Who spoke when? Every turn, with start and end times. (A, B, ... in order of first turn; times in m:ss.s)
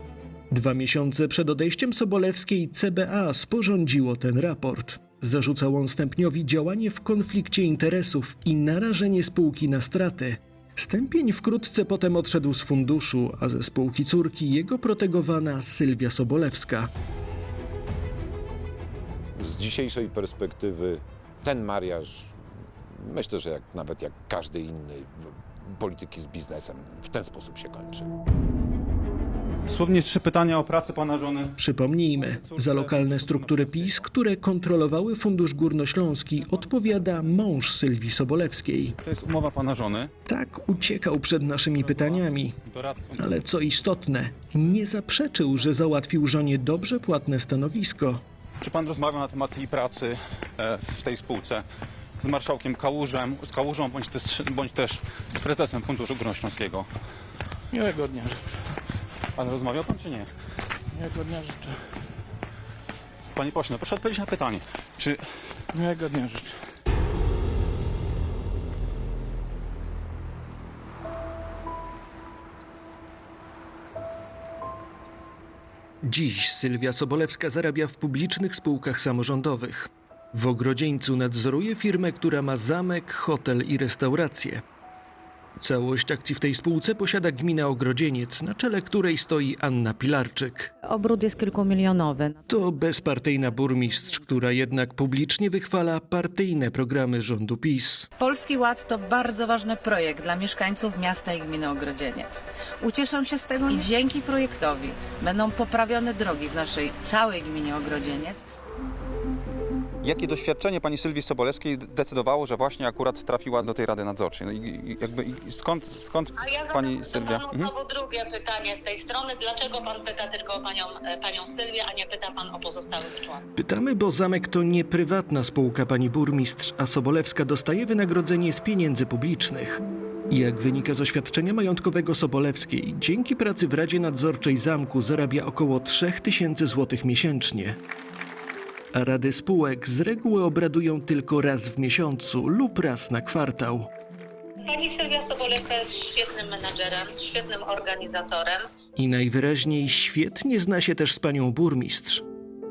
0:00.5-0:16.9 A
0:19.4-0:22.4 B
0:22.9-0:28.1 B
0:29.7-0:31.5 C
0:31.6-0:39.0 A
0:32.2-0:34.0 C
0:39.0-0:40.1 C
0:40.3-0:42.6 A
0:41.9-0:43.2 C
0:43.1-0:48.2 A
0:48.6-0:51.6 C
0:52.2-0:56.9 C
0:57.7-0:58.4 D
0:59.4-1:00.3 C
1:01.0-1:01.7 D
1:03.3-1:05.2 C
1:05.8-1:06.4 D
1:16.0-1:24.6 A
1:25.6-1:30.7 A
1:30.8-1:32.4 E
1:32.5-1:38.1 A
1:38.2-1:48.4 E
1:50.0-1:57.7 C
1:56.4-2:03.4 F
2:03.6-2:17.8 A
2:18.9-2:23.9 A
2:24.7-2:28.6 F
2:29.0-2:32.2 A